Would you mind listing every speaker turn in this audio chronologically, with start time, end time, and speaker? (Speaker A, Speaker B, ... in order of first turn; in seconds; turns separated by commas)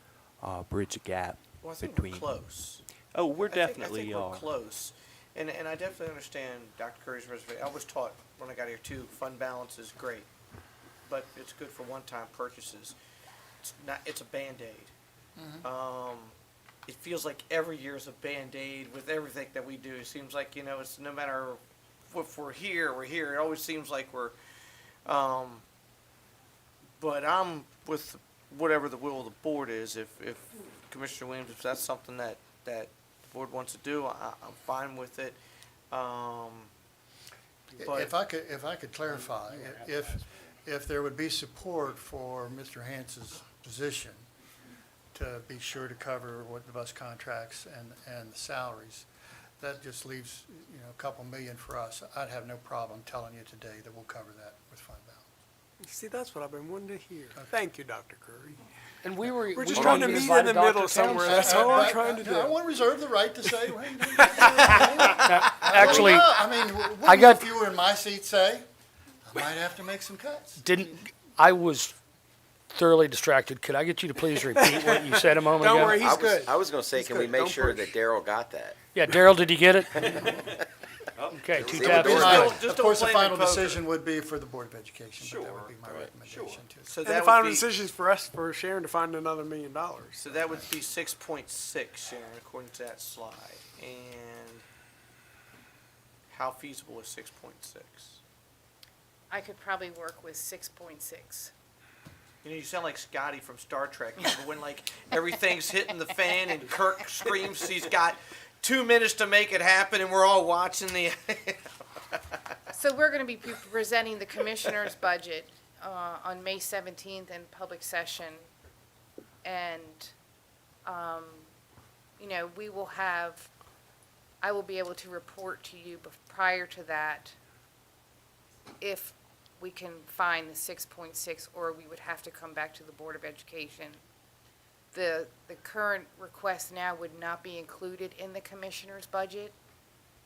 Speaker A: 0.4-2.3, Speaker B: 1.6-2.8, Speaker A: 3.1-4.5, Speaker B: 3.4-10.3, Speaker B: 11.1-12.9, Speaker B: 13.6-14.9, Speaker C: 15.4-15.7, Speaker B: 15.6-16.3, Speaker B: 16.9-21.6, Speaker B: 22.1-24.4, Speaker B: 25.1-25.6, Speaker B: 27.0-35.4, Speaker B: 35.9-36.7, Speaker B: 37.8-38.1, Speaker C: 37.8-44.2, Speaker D: 39.5-39.8, Speaker C: 45.1-49.1, Speaker C: 49.6-55.2, Speaker D: 55.8-58.6, Speaker E: 59.0-62.0, Speaker D: 59.5-62.6, Speaker C: 59.7-68.7, Speaker D: 64.1-65.0, Speaker E: 64.6-66.3, Speaker E: 67.0-67.5, Speaker C: 69.2-70.6, Speaker E: 70.6-71.9, Speaker E: 72.7-76.1, Speaker D: 74.4-77.9, Speaker F: 75.8-78.9, Speaker E: 78.9-80.3, Speaker F: 80.0-80.6, Speaker A: 81.1-82.0, Speaker E: 81.3-82.6, Speaker F: 81.5-82.6, Speaker B: 81.8-83.8, Speaker C: 81.8-87.0, Speaker A: 85.2-86.6, Speaker B: 86.8-87.7, Speaker D: 87.0-90.4, Speaker B: 90.2-94.6, Speaker B: 96.3-98.2, Speaker G: 99.3-101.5, Speaker B: 102.4-112.4, Speaker G: 112.7-118.5, Speaker G: 119.4-120.1, Speaker G: 120.8-121.5, Speaker G: 122.2-123.5, Speaker G: 124.4-127.3, Speaker G: 128.8-134.0, Speaker G: 134.9-139.6